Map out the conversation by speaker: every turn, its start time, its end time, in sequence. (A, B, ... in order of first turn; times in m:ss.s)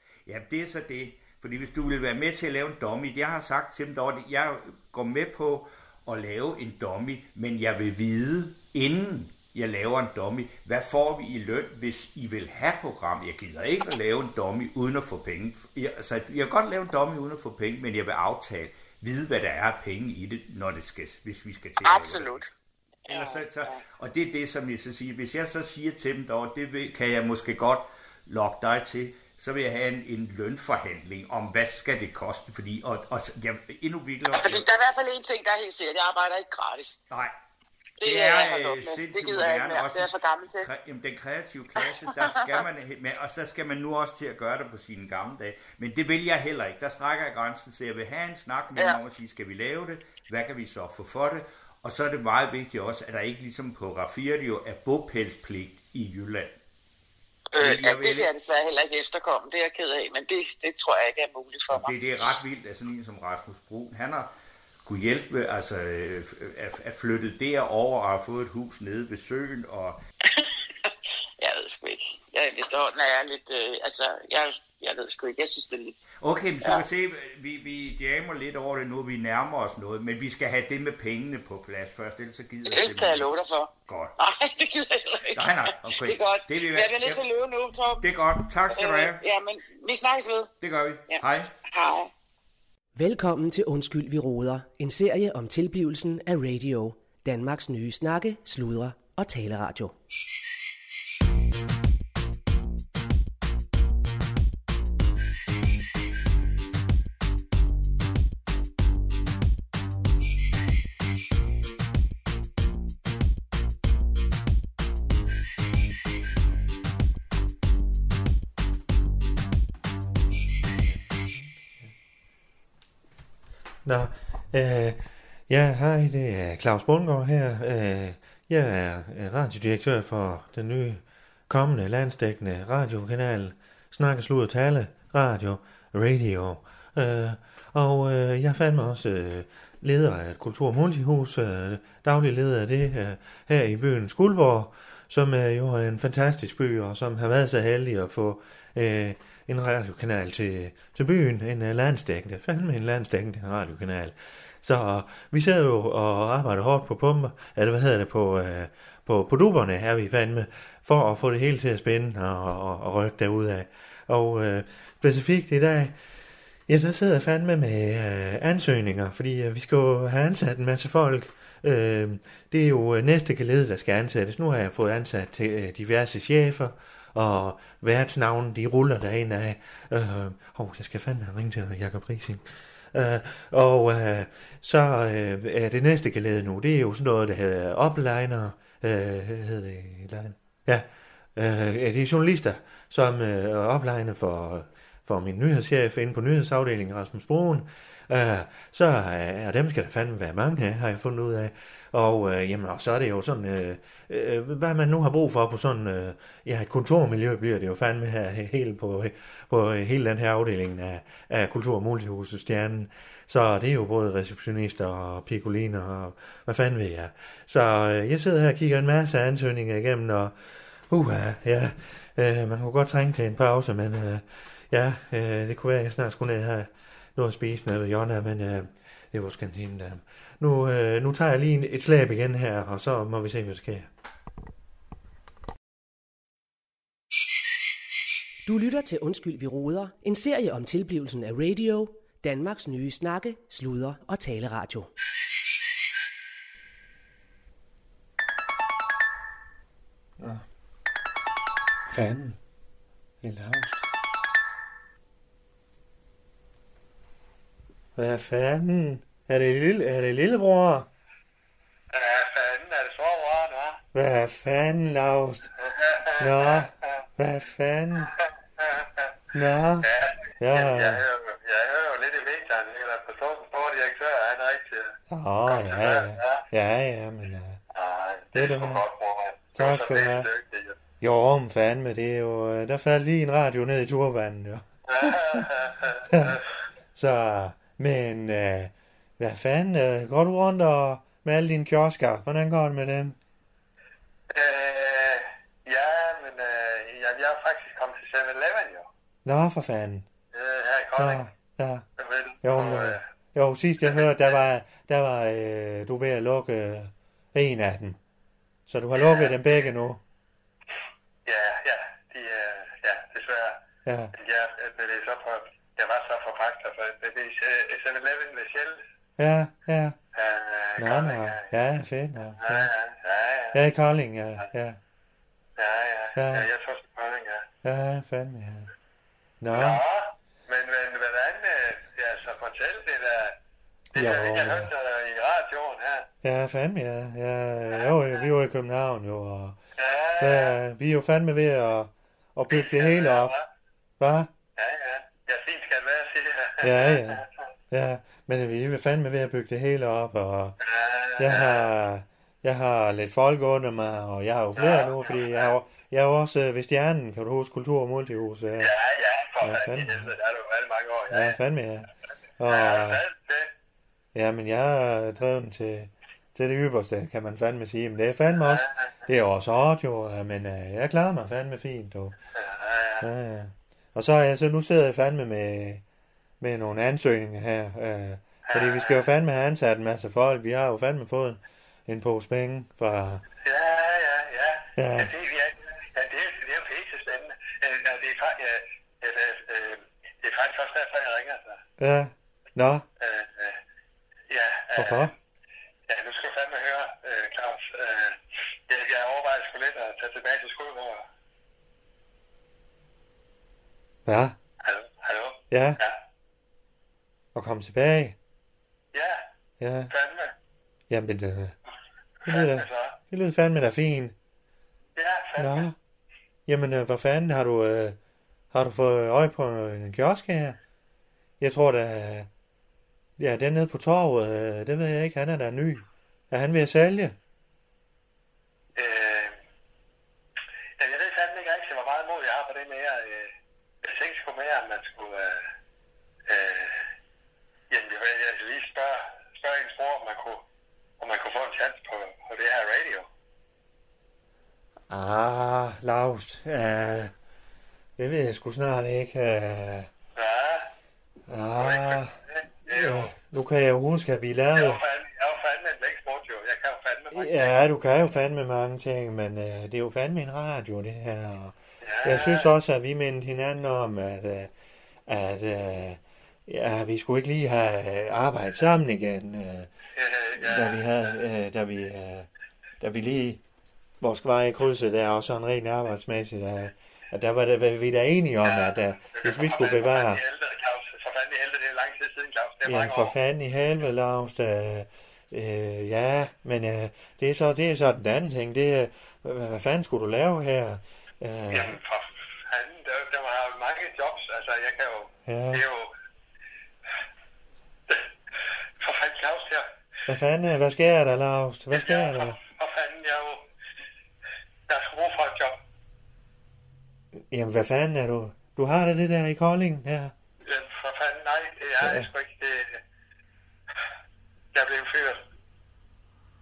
0:00.3-0:22.5 A
0:21.8-0:22.5 B
0:23.1-0:23.8 B
0:23.1-0:34.7 A
0:34.3-0:37.0 B
0:38.0-0:40.7 B
0:38.0-0:56.6 A
0:42.1-0:42.5 B
0:57.5-1:01.9 B
0:57.6-0:58.3 A
1:01.7-1:04.3 A
1:04.8-1:10.0 A
1:10.3-1:16.0 B
1:16.2-1:23.3 A
1:22.6-1:28.1 B
1:23.9-1:24.2 A
1:25.3-1:27.2 A
1:28.0-1:29.2 A
1:28.7-1:30.5 B
1:30.6-1:31.5 A
1:31.1-1:32.1 B
1:33.0-1:40.0 C
2:00.8-2:01.9 D
2:03.8-2:46.0 D
2:46.7-3:40.4 D
3:40.9-3:53.9 D
3:58.5-4:04.9 C
4:10.2-4:10.4 D
4:11.9-4:12.4 D
4:13.2-4:13.9 D
4:18.0-4:20.9 D
4:21.9-4:23.8 E
4:23.9-4:25.5 D
4:25.6-4:26.7 E
4:26.2-4:28.1 D
4:28.0-4:29.1 E
4:29.3-4:31.0 D
4:29.8-4:35.0 E
4:35.1-4:37.6 D
4:35.5-4:36.4 E
4:37.7-4:40.8 E
4:38.3-4:38.8 D
4:39.6-4:40.3 D
4:41.0-4:45.5 D
4:44.9-4:46.4 E
4:46.1-4:46.4 D
4:47.0-4:53.2 D
4:54.3-4:58.9 E
4:59.2-5:00.1 D
5:00.3-5:01.2 E
5:01.0-5:01.8 D
5:02.0-5:03.0 E
5:02.4-5:08.0 D
5:03.8-5:04.3 E
5:08.7-5:10.0 D
5:08.9-5:09.7 E
5:11.2-5:13.6 E
5:13.8-5:14.1 D
5:14.2-5:18.8 E
5:19.2-5:20.0 D
5:20.2-5:21.5 E
5:20.8-5:22.7 D
5:22.4-5:23.6 E
5:23.5-5:24.8 D
5:25.6-5:27.5 E
5:26.2-5:26.5 D
5:27.6-5:28.7 D
5:29.4-5:29.8 D
5:29.5-5:33.4 E
5:33.9-5:34.7 D
5:34.0-5:36.1 E
5:36.2-5:39.6 D
5:37.7-5:38.2 E
5:39.8-5:40.6 E
5:40.2-5:43.4 D
5:42.5-5:43.5 E
5:44.0-5:44.3 D
5:44.6-5:47.3 E
5:46.6-5:50.6 D
5:50.6-5:51.7 E
5:51.2-5:58.7 D
5:54.6-5:55.5 E
5:58.6-6:01.4 E
5:59.4-6:00.1 D
6:01.1-6:01.9 D
6:02.4-6:03.0 D
6:02.5-6:03.5 E
6:04.1-6:12.2 D
6:08.4-6:08.9 E
6:12.4-6:13.1 E
6:13.0-6:15.8 D
6:16.4-6:23.2 D
6:18.5-6:19.0 E
6:23.4-6:31.6 E
6:24.8-6:25.1 D
6:31.8-6:32.8 D
6:33.0-6:33.6 E
6:34.3-6:35.1 E
6:34.8-6:35.1 D
6:35.9-6:41.0 E
6:44.1-6:44.4 D
6:44.6-6:46.0 E
6:45.5-6:45.8 D
6:47.4-6:48.2 D
6:48.9-6:49.2 E
6:49.6-6:49.9 D
6:49.9-6:50.3 E
6:50.9-6:51.6 D
6:52.2-6:53.0 E
6:52.2-6:54.2 D
6:55.0-6:55.7 E
6:55.4-6:55.8 D
6:56.5-6:58.0 D
6:58.5-7:00.6 D
7:01.4-7:02.3 D
7:03.2-7:07.2 D
7:08.8-7:09.4 E
7:10.8-7:13.3 E
7:13.8-7:15.4 E
7:16.3-7:16.8 E
7:17.7-7:20.4 E
7:21.0-7:23.1 E
7:24.9-7:27.1 D
7:28.0-7:29.9 D
7:30.2-7:30.7 E
7:31.3-7:32.2 D
7:31.6-7:33.1 E
7:32.7-7:34.8 D
7:34.6-7:37.6 E
7:37.1-7:44.5 D
7:41.8-7:42.5 E
7:45.1-7:49.7 D
7:50.0-7:50.9 E
7:50.4-7:52.3 D
7:52.8-7:53.4 D
7:54.0-8:00.2 D
7:58.4-8:03.1 E
8:02.6-8:11.8 D
8:11.5-8:15.9 E
8:15.3-8:15.6 D
8:18.8-8:19.7 E
8:20.1-8:22.4 D
8:21.7-8:23.4 E
8:24.7-8:25.6 E
8:27.2-8:30.1 D
8:30.4-8:32.8 E
8:31.8-8:32.1 D
8:34.5-8:35.2 E